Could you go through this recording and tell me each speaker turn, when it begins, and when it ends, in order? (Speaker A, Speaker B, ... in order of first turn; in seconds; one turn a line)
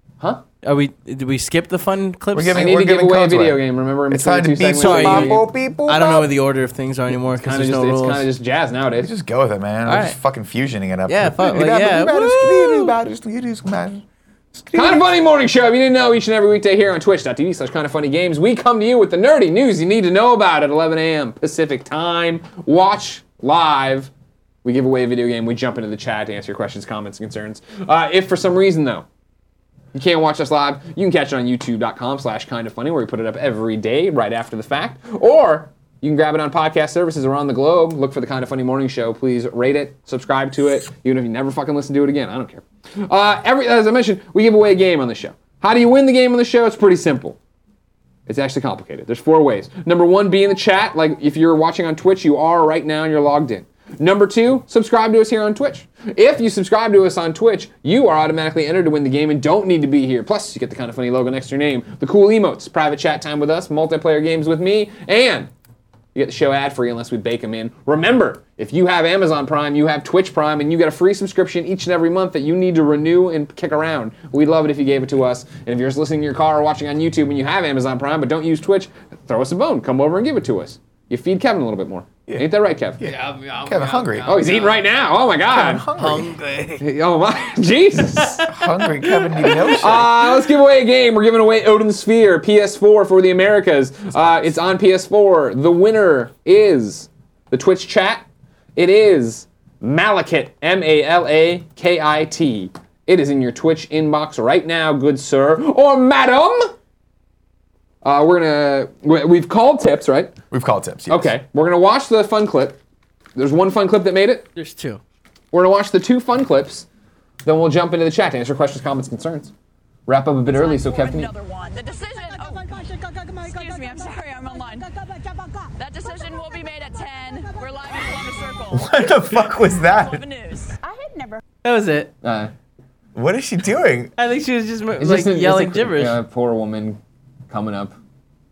Speaker A: 0.6-2.7
Speaker B: 2.3-6.3
Speaker C: 2.5-5.4
Speaker A: 4.8-8.3
Speaker C: 7.3-9.1
Speaker B: 9.0-15.1
Speaker A: 9.9-10.2
Speaker A: 11.1-12.9
Speaker C: 14.7-24.1
Speaker C: 24.6-29.1
Speaker C: 29.9-47.4
Speaker C: 48.3-65.5
Speaker C: 66.1-83.0
Speaker B: 82.3-84.4
Speaker A: 83.0-84.9
Speaker C: 84.3-85.8
Speaker B: 85.5-86.3
Speaker A: 85.9-86.8
Speaker C: 86.8-88.5
Speaker A: 88.1-89.8
Speaker B: 88.5-90.2
Speaker C: 89.5-106.7
Speaker C: 108.0-110.3
Speaker B: 110.5-111.4
Speaker C: 111.1-112.8
Speaker C: 113.4-114.5
Speaker A: 114.5-115.0
Speaker C: 115.5-116.9
Speaker C: 117.4-119.5
Speaker C: 120.1-121.3
Speaker D: 120.5-124.9
Speaker D: 125.8-131.3
Speaker B: 128.7-130.2
Speaker A: 131.6-132.1
Speaker C: 132.2-132.5
Speaker B: 133.1-134.1
Speaker A: 134.2-136.2
Speaker C: 135.0-137.0
Speaker C: 137.5-137.9